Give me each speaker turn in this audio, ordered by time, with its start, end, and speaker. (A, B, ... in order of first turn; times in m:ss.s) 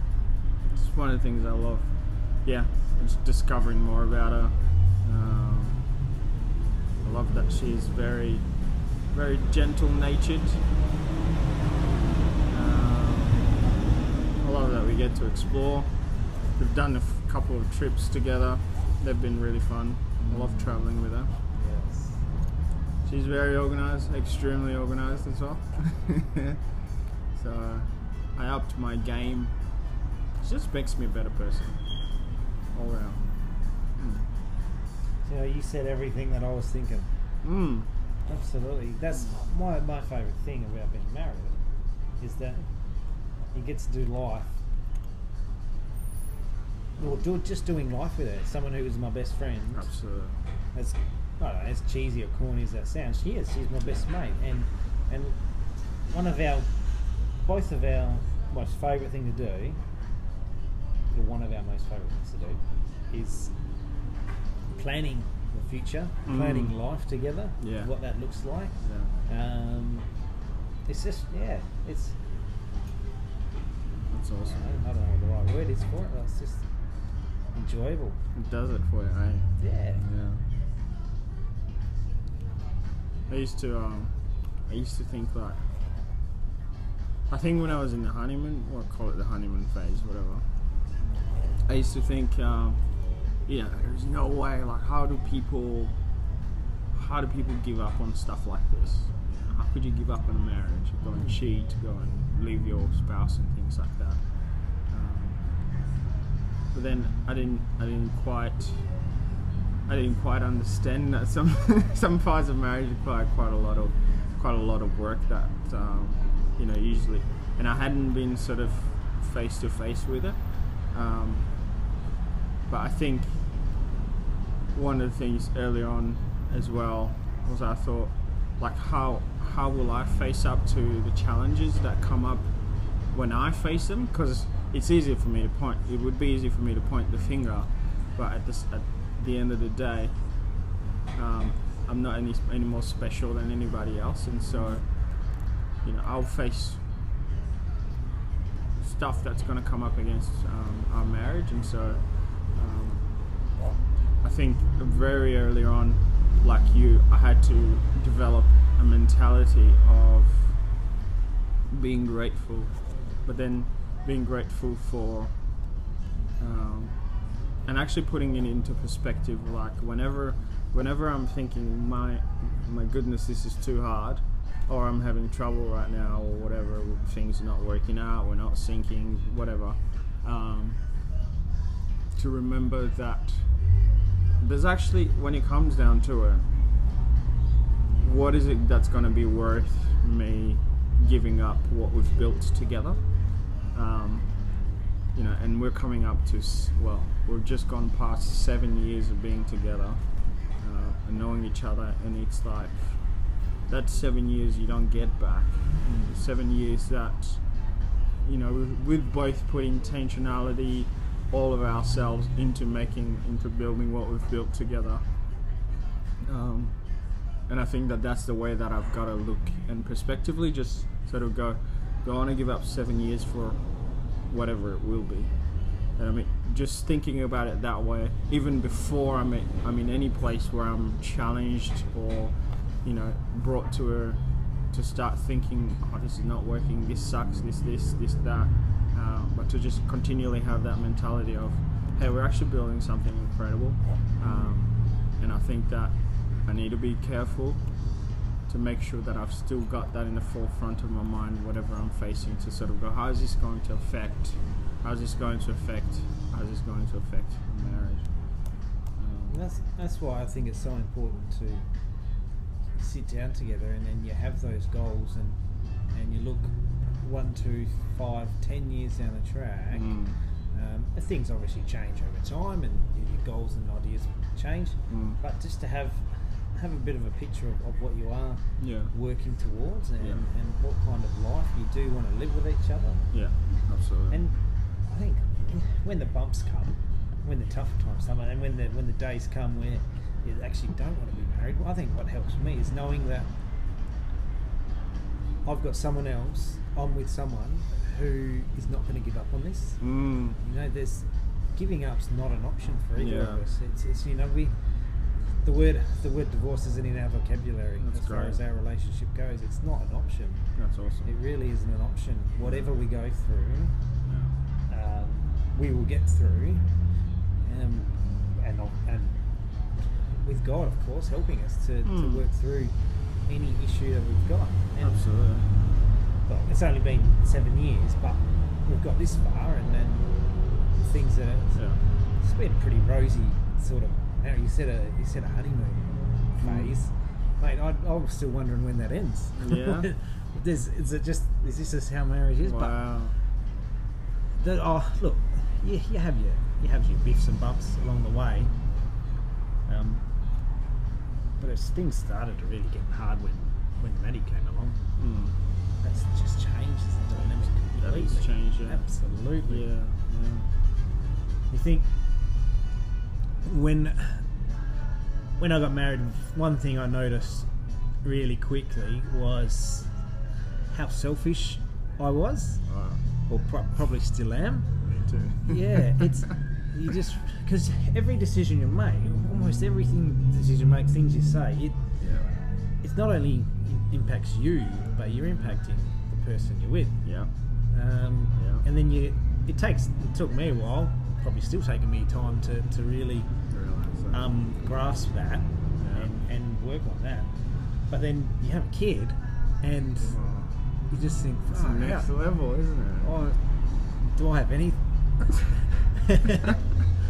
0:00.7-0:05.8 A
0:07.0-0:10.6 A
0:12.5-0:13.5 A
0:14.4-0:15.9 A
0:16.6-0:21.3 A
0:20.2-0:20.9 B
0:21.6-0:22.2 B
0:23.0-0:26.6 A
0:27.3-0:29.5 A
0:30.4-0:31.8 A
0:32.7-0:33.2 A
0:34.0-0:34.3 A
0:35.2-0:37.1 B
0:37.4-0:37.9 A
0:38.3-0:41.6 B
0:42.2-0:42.6 B
0:43.5-0:44.6 B
0:47.0-0:49.9 B
0:49.7-0:50.4 A
0:50.8-0:55.4 B
0:56.0-0:56.7 B
0:57.4-0:59.8 B
1:01.1-1:03.5 B
1:04.7-1:08.8 B
1:06.3-1:06.8 A
1:07.6-1:07.9 A
1:08.8-1:09.1 A
1:09.3-1:10.1 B
1:10.9-1:12.2 B
1:14.1-1:14.8 A
1:14.5-1:16.7 B
1:17.5-1:18.2 B
1:18.4-1:20.4 A
1:19.6-1:20.0 B
1:23.3-1:24.1 A
1:24.7-1:25.6 A
1:27.3-1:30.5 A
1:31.7-1:32.8 A
1:33.4-1:36.0 A
1:36.9-1:45.4 A
1:41.1-1:41.4 B
1:46.7-1:48.8 A
1:49.9-2:01.5 A
2:02.7-2:03.4 A
2:04.7-2:26.8 A
2:24.5-2:24.8 B
2:28.8-2:33.1 A
2:34.2-2:40.6 A
2:41.7-2:45.8 A
2:46.4-3:00.8 A
3:02.1-3:03.5 A
3:04.4-3:06.5 A
3:08.0-3:35.0 A
3:36.2-3:36.8 A
3:37.5-4:18.1 A
4:04.2-4:04.6 B
4:19.0-4:19.4 A
4:19.3-4:21.6 B
4:22.8-4:25.4 B
4:25.9-4:30.0 B
4:29.7-4:30.2 A
4:30.5-4:43.1 B
4:34.9-4:35.2 A
4:38.6-4:38.9 A
4:40.0-4:40.3 A
4:43.1-4:44.2 A
4:44.1-4:53.3 B
4:55.4-4:59.8 B
4:59.8-5:00.4 A
5:00.4-5:04.6 B
5:03.0-5:03.4 A
5:05.4-5:10.5 B
5:07.8-5:08.4 A
5:10.6-5:11.1 A
5:11.0-5:13.7 B
5:12.4-5:12.8 A
5:14.1-5:14.3 A
5:14.7-5:16.7 B
5:17.4-5:19.2 B
5:20.2-5:22.7 B
5:21.8-5:22.2 A
5:23.3-5:25.1 B
5:24.8-5:25.5 A
5:26.3-5:30.1 B
5:30.8-5:31.6 B
5:31.5-5:31.8 A
5:32.2-5:42.8 B
5:36.4-5:36.7 A
5:39.4-5:39.9 A
5:42.4-5:43.2 A
5:44.4-5:48.5 B
5:49.7-5:50.0 B
5:51.4-5:54.8 B
5:55.0-5:55.4 A
5:55.8-5:59.7 B
5:57.7-5:58.8 A
5:59.4-6:00.5 A
6:01.5-6:01.9 B
6:03.4-6:04.3 B
6:05.4-6:07.5 B
6:08.0-6:09.9 B
6:10.7-6:12.6 B
6:12.7-6:13.0 A
6:13.3-6:14.7 B
6:14.8-6:16.3 A
6:15.5-6:22.2 B
6:22.0-6:22.3 A
6:22.8-6:27.0 B
6:27.0-6:27.3 A
6:27.7-6:33.3 B
6:28.4-6:28.6 A
6:33.5-6:34.2 A
6:34.1-6:37.3 B
6:35.8-6:36.1 A
6:37.9-6:40.2 B
6:40.0-6:40.6 A
6:40.9-6:42.1 B
6:41.5-6:43.1 A
6:43.0-6:43.4 B
6:44.0-6:46.6 B